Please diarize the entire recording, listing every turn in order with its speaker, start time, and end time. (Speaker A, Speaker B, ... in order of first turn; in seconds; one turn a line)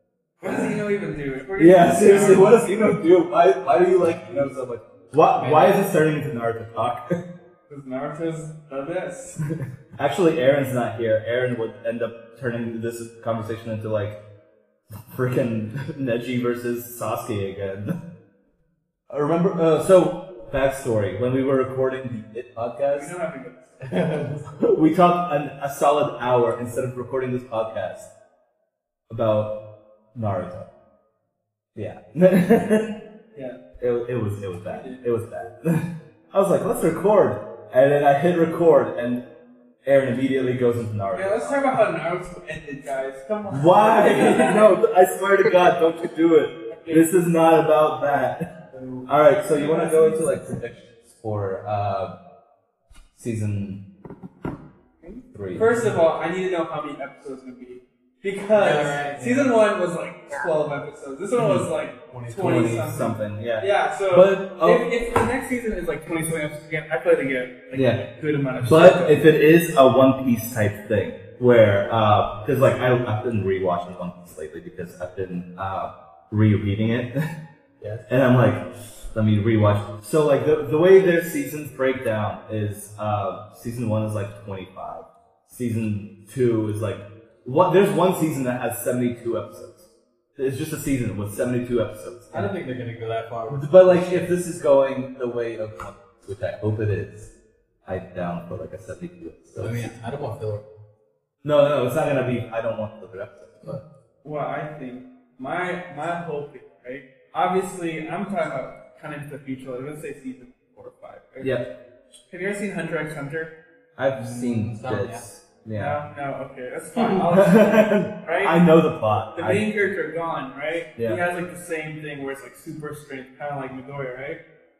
Speaker A: 0.4-2.9
Speaker B: 1.6-7.2
Speaker C: 5.3-5.9
Speaker A: 7.7-9.4
Speaker B: 10.0-14.2
Speaker B: 15.1-17.9
Speaker B: 19.1-23.1
Speaker A: 22.9-24.0
Speaker C: 23.9-24.4
Speaker B: 24.6-28.1
Speaker B: 29.1-29.6
Speaker B: 30.1-30.7
Speaker B: 31.7-33.0
Speaker A: 33.3-33.6
Speaker B: 33.8-39.2
Speaker A: 34.7-35.0
Speaker B: 39.8-41.8
Speaker A: 41.1-44.7
Speaker B: 43.5-48.5
Speaker A: 46.7-47.1
Speaker A: 48.7-50.5
Speaker B: 49.0-52.1
Speaker B: 53.1-53.8
Speaker A: 55.0-69.3
Speaker B: 55.3-55.7
Speaker C: 55.6-55.9
Speaker C: 58.5-59.6
Speaker B: 61.4-61.7
Speaker C: 62.1-62.8
Speaker B: 62.3-64.9
Speaker B: 67.7-68.0
Speaker B: 68.6-77.2
Speaker C: 77.8-78.0
Speaker B: 78.1-92.6
Speaker C: 92.3-94.3
Speaker B: 93.5-97.3
Speaker B: 97.8-100.0
Speaker C: 99.6-100.7
Speaker B: 101.4-103.8
Speaker A: 104.2-111.6
Speaker B: 111.4-111.7
Speaker A: 112.3-113.5
Speaker B: 114.0-116.0
Speaker C: 114.2-115.3
Speaker A: 115.7-118.6
Speaker B: 117.3-119.6
Speaker A: 119.3-124.4
Speaker B: 121.0-121.2